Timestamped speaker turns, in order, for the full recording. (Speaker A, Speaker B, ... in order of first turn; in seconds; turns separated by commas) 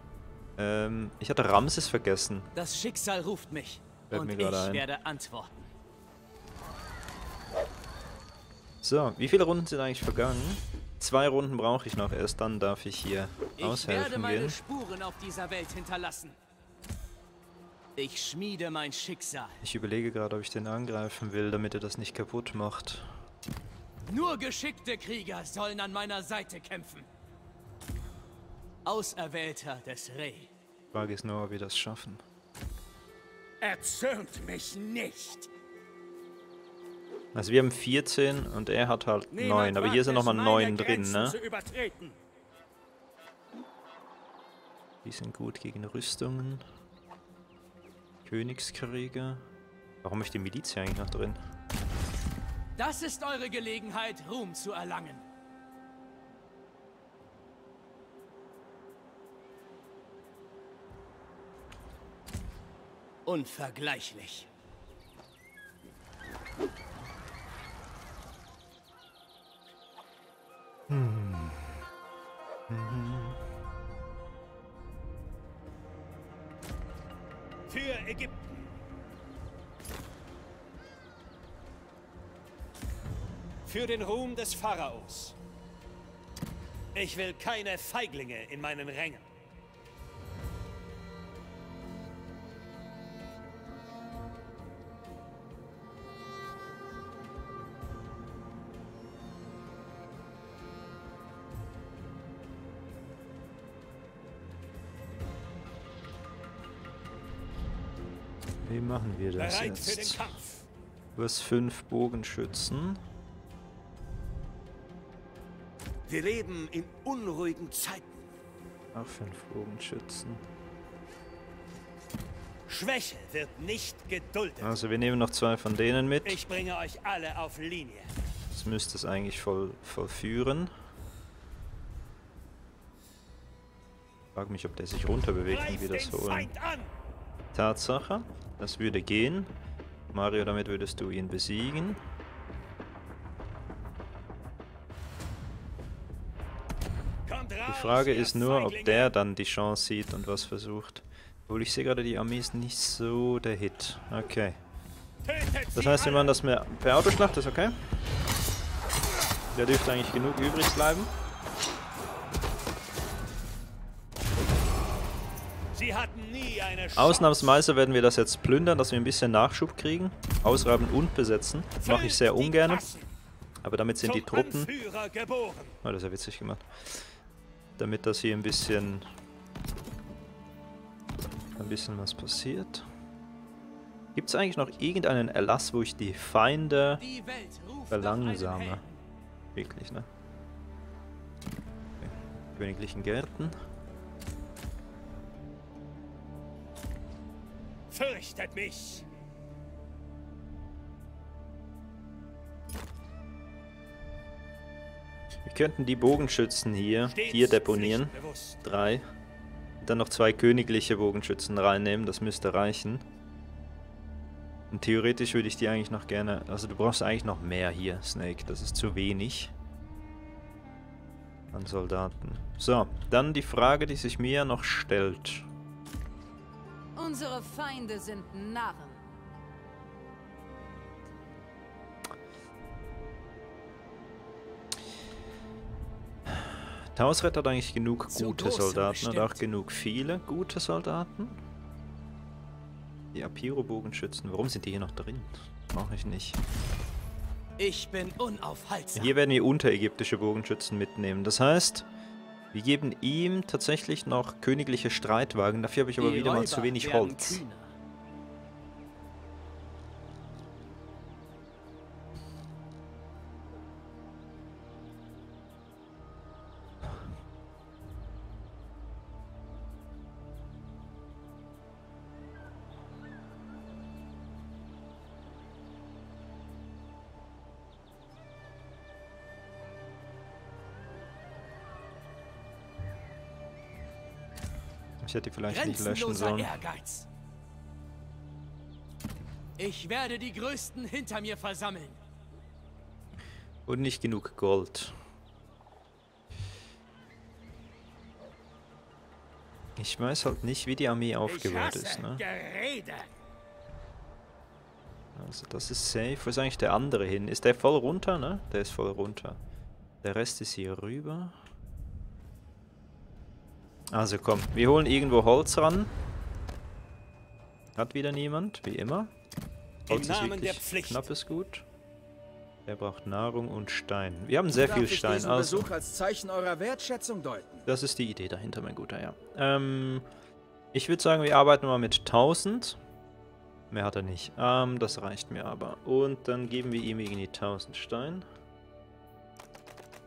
Speaker A: 0.6-2.5, Speaker B: 2.5-5.7, Speaker A: 4.1-4.8, Speaker A: 8.8-14.6, Speaker B: 13.6-16.4, Speaker B: 18.0-19.6, Speaker A: 19.6-23.1, Speaker B: 24.1-27.1, Speaker B: 28.9-30.5, Speaker A: 30.9-32.2, Speaker C: 33.6-34.5, Speaker B: 34.5-35.4, Speaker A: 37.4-41.4, Speaker C: 39.3-42.1, Speaker A: 45.0-46.6, Speaker A: 48.2-49.5, Speaker A: 50.0-51.4, Speaker B: 52.8-55.2, Speaker B: 63.3-64.5, Speaker A: 70.9-71.8, Speaker A: 72.7-73.4, Speaker C: 77.7-78.4, Speaker C: 83.7-85.4, Speaker C: 86.9-89.2, Speaker A: 108.7-110.3, Speaker C: 109.4-110.7, Speaker A: 111.2-113.0, Speaker C: 116.1-118.2, Speaker A: 118.9-120.4, Speaker C: 122.7-124.7, Speaker A: 124.6-126.4, Speaker C: 126.2-128.1, Speaker A: 128.5-130.7, Speaker A: 134.3-136.5, Speaker C: 135.5-136.9, Speaker A: 137.5-139.5, Speaker A: 140.1-142.0, Speaker C: 147.3-149.1, Speaker A: 147.7-154.6, Speaker C: 155.2-156.3, Speaker A: 155.8-157.8, Speaker A: 159.6-161.1, Speaker C: 165.7-167.5, Speaker A: 166.9-172.9, Speaker C: 171.8-173.1, Speaker A: 173.6-174.7, Speaker C: 174.0-175.8, Speaker A: 175.8-177.1, Speaker A: 177.8-179.1, Speaker A: 181.6-182.9, Speaker A: 184.2-187.0, Speaker B: 187.0-189.0, Speaker A: 187.9-188.8, Speaker A: 189.6-190.1, Speaker A: 192.0-193.6, Speaker C: 197.9-199.1, Speaker A: 205.5-208.1, Speaker C: 207.1-208.6, Speaker A: 208.6-209.1, Speaker A: 209.8-213.0, Speaker A: 214.7-219.5, Speaker A: 221.5-225.5, Speaker D: 227.0-229.0, Speaker A: 236.3-241.4, Speaker B: 238.1-239.4, Speaker A: 243.1-246.4, Speaker B: 247.6-249.2, Speaker A: 248.9-251.9, Speaker A: 252.5-257.4, Speaker B: 256.0-257.7, Speaker A: 285.0-286.5, Speaker B: 285.5-287.1, Speaker B: 289.6-292.0, Speaker A: 293.7-295.0, Speaker A: 299.8-302.2, Speaker C: 301.3-303.1, Speaker A: 305.2-309.4, Speaker A: 310.0-311.4, Speaker A: 313.9-315.9, Speaker A: 317.8-319.1, Speaker C: 319.9-321.1, Speaker A: 319.9-321.6, Speaker A: 322.7-325.7, Speaker E: 324.6-327.7, Speaker A: 327.7-330.1, Speaker A: 330.7-332.8, Speaker A: 333.7-338.2